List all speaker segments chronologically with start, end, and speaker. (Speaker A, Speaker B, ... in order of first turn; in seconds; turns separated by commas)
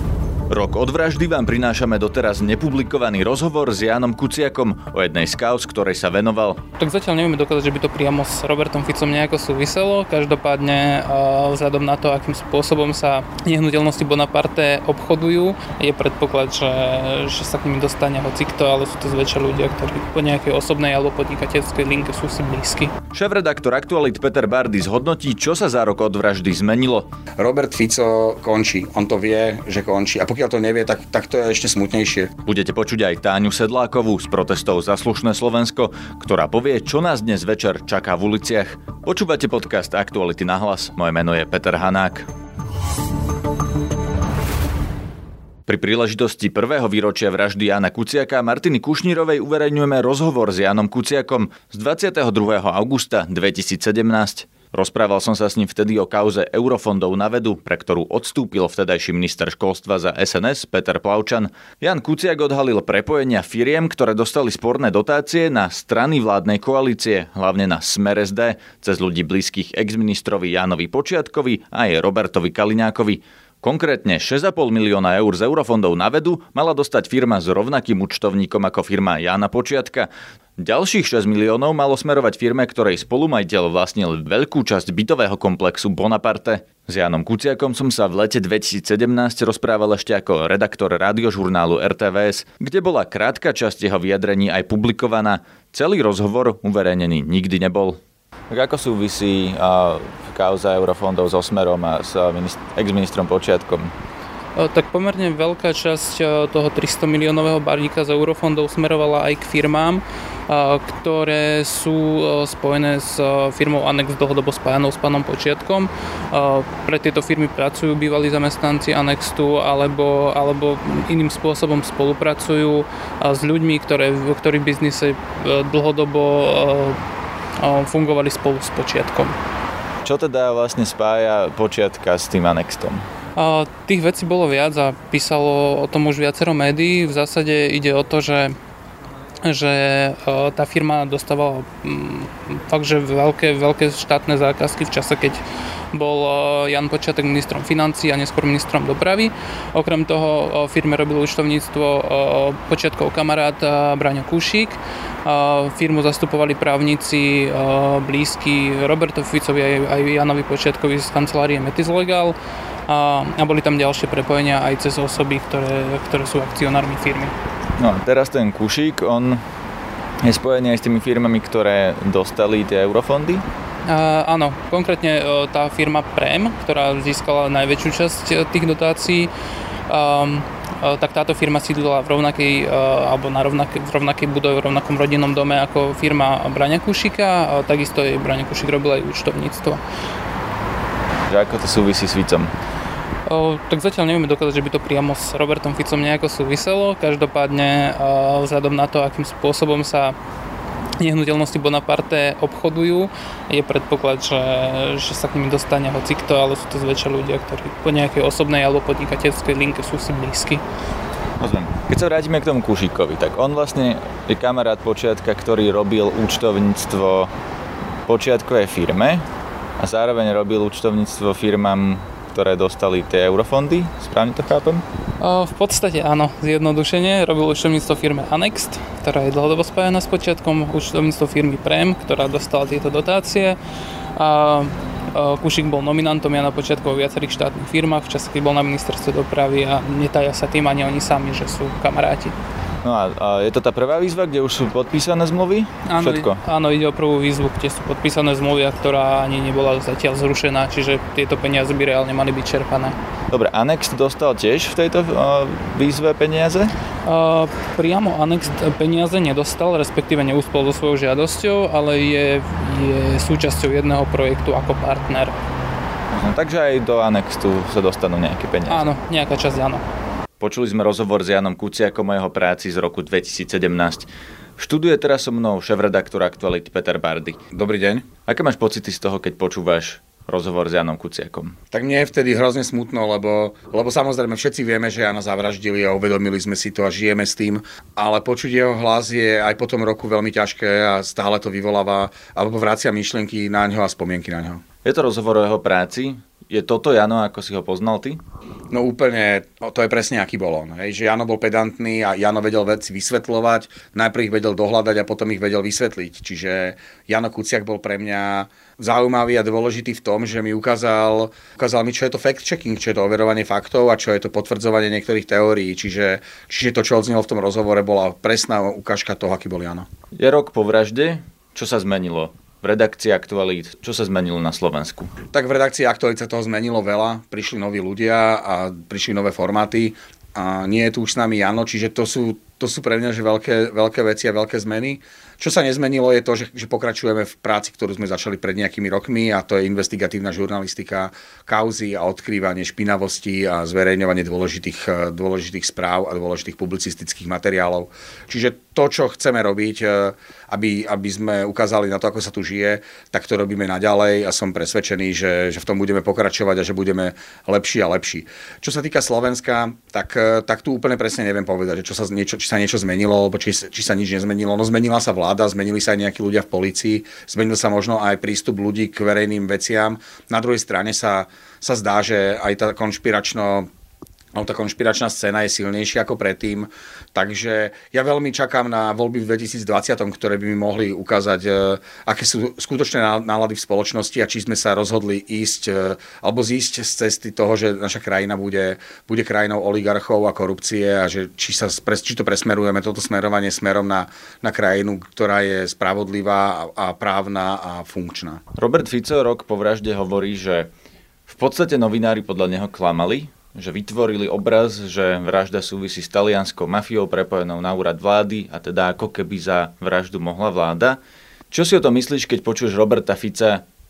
Speaker A: 0.5-6.6, Speaker B: 6.8-22.9, Speaker A: 23.1-27.1, Speaker C: 27.4-32.3, Speaker A: 32.5-42.3, Speaker A: 45.7-98.0, Speaker A: 98.5-103.9, Speaker B: 104.6-127.0, Speaker B: 127.6-129.3, Speaker A: 130.1-133.1, Speaker B: 133.4-138.6, Speaker B: 139.4-145.4, Speaker B: 145.9-162.4, Speaker B: 162.9-167.3, Speaker A: 167.8-169.4, Speaker A: 170.2-173.4, Speaker B: 173.9-179.3, Speaker B: 179.9-189.8, Speaker A: 191.3-192.5, Speaker B: 193.3-200.2, Speaker B: 201.0-210.6, Speaker A: 211.4-217.3, Speaker A: 218.1-219.2, Speaker A: 219.8-224.8, Speaker B: 225.2-233.6, Speaker B: 234.2-242.3, Speaker A: 242.8-246.4, Speaker B: 245.9-252.9, Speaker A: 253.3-256.8, Speaker B: 257.1-265.3, Speaker A: 266.1-268.9, Speaker B: 268.7-269.8, Speaker A: 270.4-277.4, Speaker C: 277.5-278.1, Speaker A: 278.2-281.6, Speaker C: 281.7-294.6, Speaker A: 294.9-298.2, Speaker C: 298.7-319.9, Speaker A: 320.2-325.1, Speaker C: 325.3-373.7, Speaker C: 374.4-398.4, Speaker A: 398.6-400.7, Speaker A: 401.3-411.0, Speaker A: 411.5-413.6